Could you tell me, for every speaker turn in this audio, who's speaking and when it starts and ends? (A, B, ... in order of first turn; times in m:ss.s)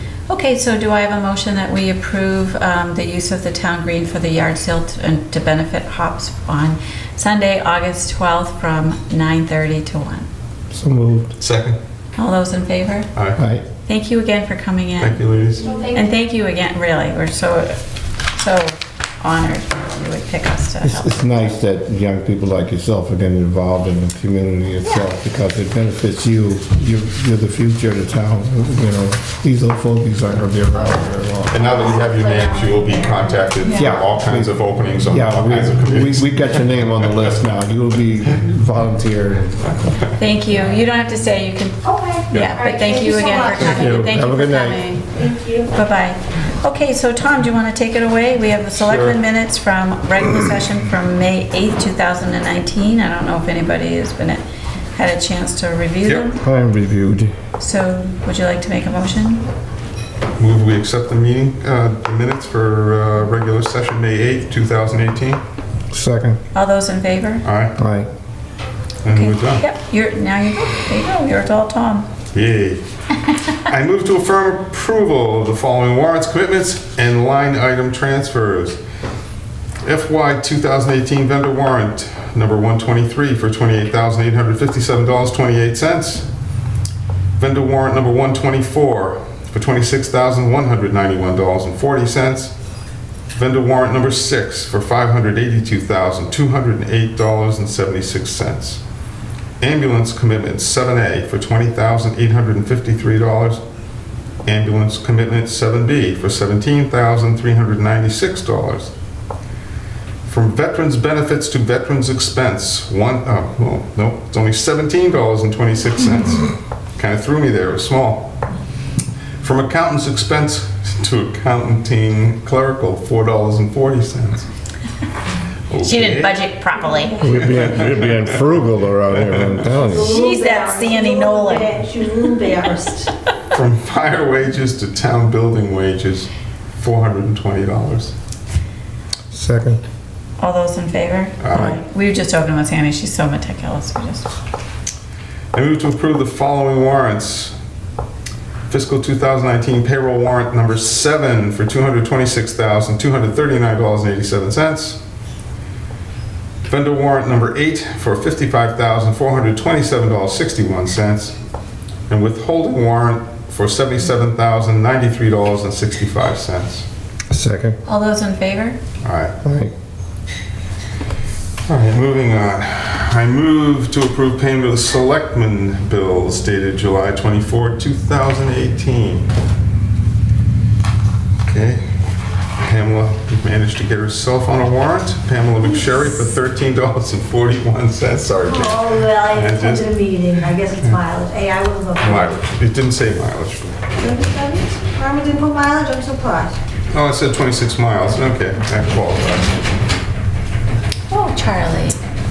0:00.3-0:10.3 A
0:10.7-0:11.3 B
0:11.4-0:11.8 C
0:12.2-0:13.1 A
0:13.1-0:13.4 C
0:13.4-0:13.6 B
0:13.9-0:15.3 A
0:15.0-0:15.7 C
0:15.6-0:16.1 D
0:15.9-0:17.8 A
0:18.3-0:21.1 A
0:20.8-0:31.6 B
0:31.5-0:37.4 C
0:31.8-0:33.6 D
0:33.7-0:39.7 B
0:40.2-0:45.0 A
0:41.8-0:44.0 E
0:42.5-0:43.5 D
0:43.6-0:44.9 B
0:45.2-0:45.7 E
0:45.7-0:54.4 A
0:48.7-0:49.2 C
0:54.9-0:56.4 A
0:56.4-0:57.3 B
0:57.6-0:59.4 A
1:00.4-1:05.4 C
1:05.9-1:06.4 B
1:06.5-1:07.4 A
1:07.4-1:07.8 C
1:07.8-1:08.1 B
1:09.0-1:09.6 C
1:09.1-1:12.1 A
1:12.3-1:12.8 C
1:13.7-1:18.8 C
1:19.8-1:26.2 C
1:27.4-1:32.5 C
1:33.3-1:38.8 C
1:39.6-1:43.6 C
1:44.4-1:48.9 C
1:50.2-1:58.3 C
1:59.4-2:04.5 C
2:05.7-2:06.4 C
2:05.8-2:07.2 A
2:07.2-2:10.0 C
2:07.2-2:10.2 B
2:09.7-2:13.1 E
2:10.0-2:11.8 A
2:13.5-2:18.1 C
2:19.3-2:19.8 B
2:20.4-2:24.3 A
2:21.4-2:21.8 C
2:25.5-2:27.6 C
2:28.7-2:35.0 C
2:36.7-2:41.3 C
2:42.1-2:46.8 C
2:47.3-2:47.8 B
2:47.8-2:48.8 A
2:49.0-2:49.3 C
2:49.4-2:49.7 B
2:51.7-2:59.3 C
3:01.4-3:01.8 C
3:02.6-3:10.0 C
3:08.4-3:12.4 E
3:10.8-3:11.0 C
3:12.0-3:13.8 C
3:13.9-3:16.6 E
3:16.9-3:19.6 C
3:21.1-3:22.0 A